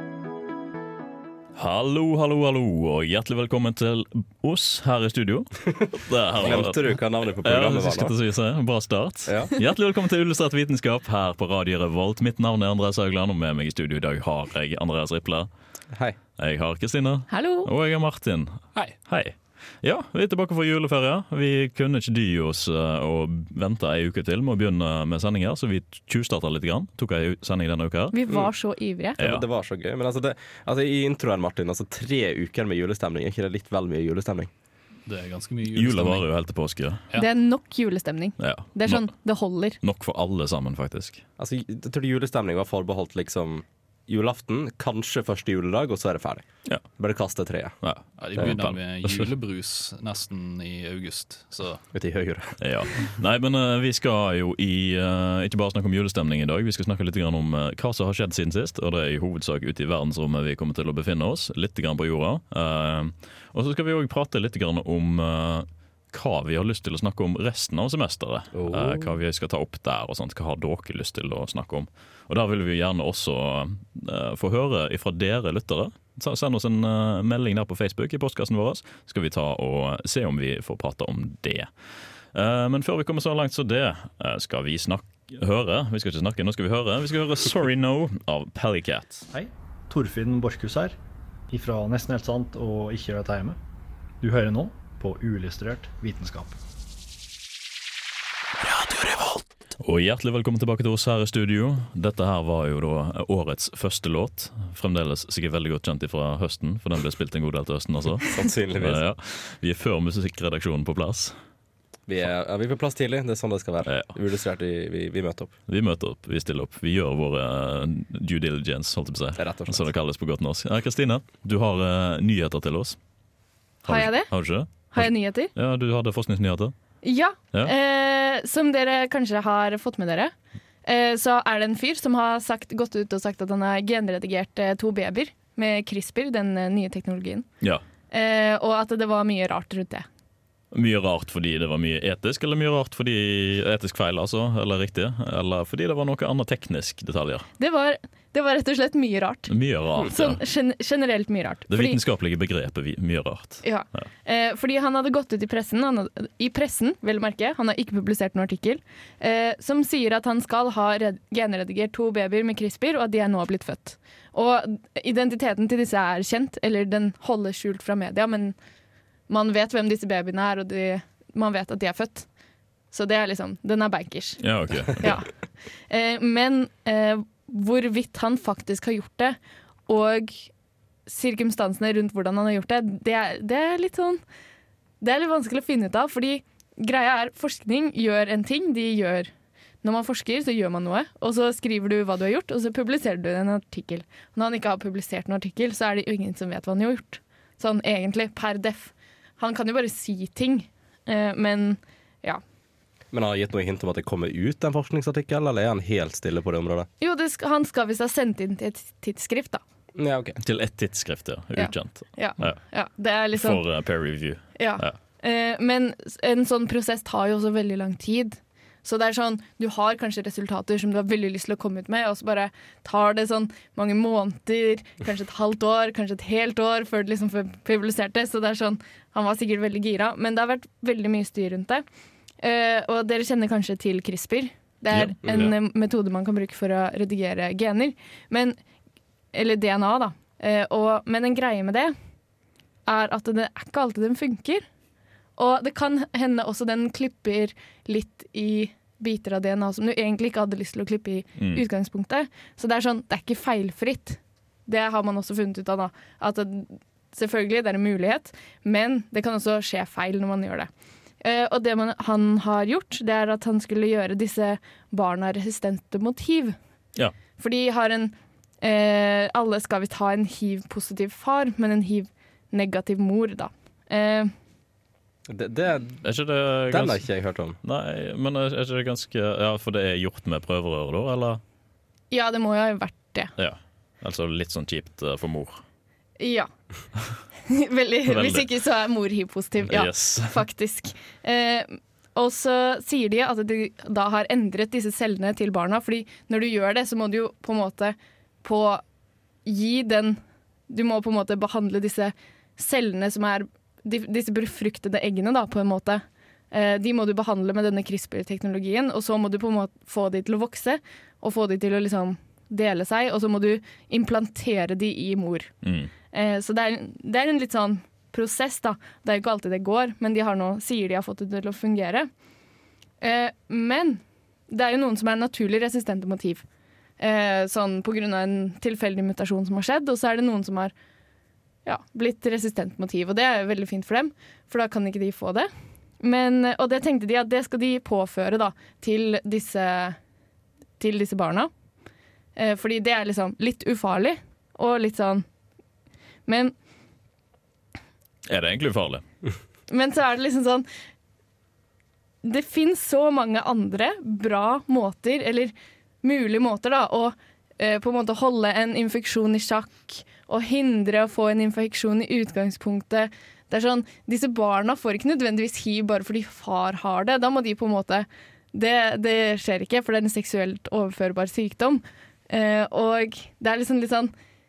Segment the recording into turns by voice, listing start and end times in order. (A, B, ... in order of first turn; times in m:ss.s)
0:01.6-0:15.5 A
0:06.4-0:08.1 B
0:09.3-0:09.5 B
0:15.9-0:16.2 B
0:16.4-0:28.2 A
0:17.3-0:17.7 C
0:28.1-0:29.2 C
0:29.2-0:34.5 B
0:29.2-0:29.4 A
0:35.1-0:36.3 D
0:35.7-0:37.0 A
0:37.2-0:39.8 C
0:38.4-0:39.1 A
0:39.8-0:41.2 A
0:41.4-0:46.5 B
0:47.0-0:47.8 B
0:47.8-0:49.3 A
0:48.2-0:51.8 D
0:51.9-0:52.6 B
0:52.6-1:21.7 A
1:08.6-1:09.1 B
1:22.3-1:29.3 A
1:29.3-1:31.0 E
1:31.5-1:33.6 E
1:34.2-1:36.6 E
1:38.7-1:51.4 A
1:48.3-1:49.0 B
1:52.1-1:55.5 B
1:53.8-1:54.1 A
1:55.7-2:03.0 A
1:59.4-1:59.9 B
2:03.8-2:05.5 C
2:03.9-2:06.7 A
2:07.0-2:10.3 C
2:10.8-2:17.5 C
2:18.1-2:20.1 C
2:20.7-2:27.5 A
2:27.6-2:29.5 C
2:29.5-2:30.4 A
2:30.0-2:32.0 C
2:31.7-2:34.0 A
2:33.6-2:48.6 C
2:49.3-2:52.3 C
2:52.9-2:55.3 C
2:54.4-2:55.2 A
2:55.9-3:00.5 C
3:01.1-3:04.2 C
3:05.0-3:09.3 C
3:09.8-3:22.4 C
3:23.1-3:26.9 B
3:27.0-3:29.6 C
3:30.0-3:30.4 B
3:30.4-3:32.6 A
3:31.6-3:33.6 C
3:33.3-3:35.0 A
3:34.6-3:51.8 C
3:52.4-3:58.6 C
3:54.9-3:55.5 A
3:55.2-3:55.5 B
3:59.3-4:01.9 C
4:02.9-4:04.6 C
4:05.4-4:20.7 C
4:21.2-4:26.6 C
4:27.4-4:34.3 C
4:35.3-4:36.0 B
4:36.0-4:37.0 A
4:36.7-4:37.6 B
4:37.6-4:41.4 A
4:42.1-4:43.3 C
4:43.4-4:45.6 A
4:46.2-4:46.5 C
4:47.5-4:58.8 C
4:48.1-4:48.5 A
4:49.7-4:50.4 A
4:59.4-5:15.5 C
5:15.6-5:15.9 A
5:16.1-5:22.1 C
5:23.0-5:26.4 C
5:27.0-5:30.7 C
5:31.6-5:35.5 C
5:36.0-5:40.0 C
5:40.8-5:41.5 C
5:42.4-5:45.3 C
5:46.3-5:46.5 C
5:48.3-5:49.0 A
5:49.7-5:50.7 C
5:52.2-6:14.1 C